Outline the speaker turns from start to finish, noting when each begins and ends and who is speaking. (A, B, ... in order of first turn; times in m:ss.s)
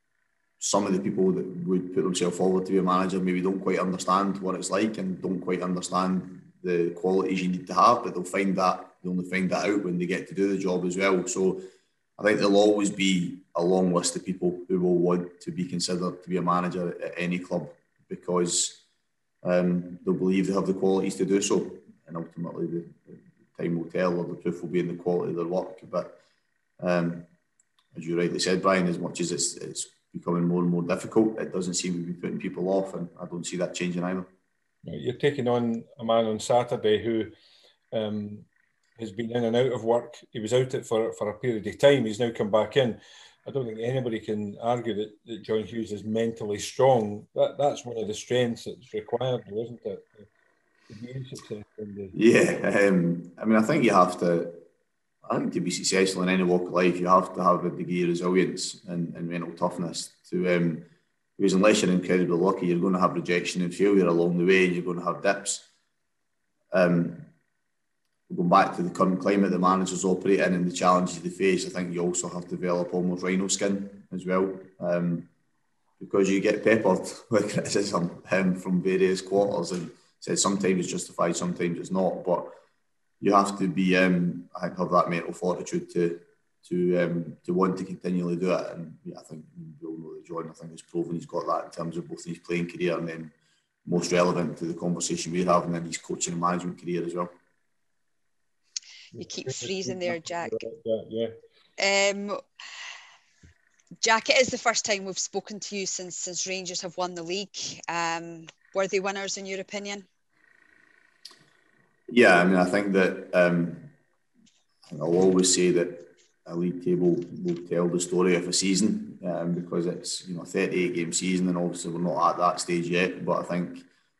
0:00.6-0:11.6 A
0:12.2-0:18.8 A
0:19.4-0:26.2 A
0:26.8-0:27.3 A
0:28.0-0:34.3 A
0:34.8-0:37.3 B
0:37.9-0:38.5 B
0:39.0-0:50.3 B
0:50.9-0:52.1 B
0:52.1-0:54.6 A
0:55.3-1:05.7 A
1:06.7-1:07.3 A
1:08.3-1:15.3 A
1:16.0-1:22.5 A
1:23.2-1:33.3 A
1:33.9-1:37.3 A
1:39.1-1:41.4 B
1:39.2-1:40.6 C
1:41.8-1:42.4 C
1:44.0-1:50.0 C
1:52.1-1:53.9 A
1:54.9-2:03.9 A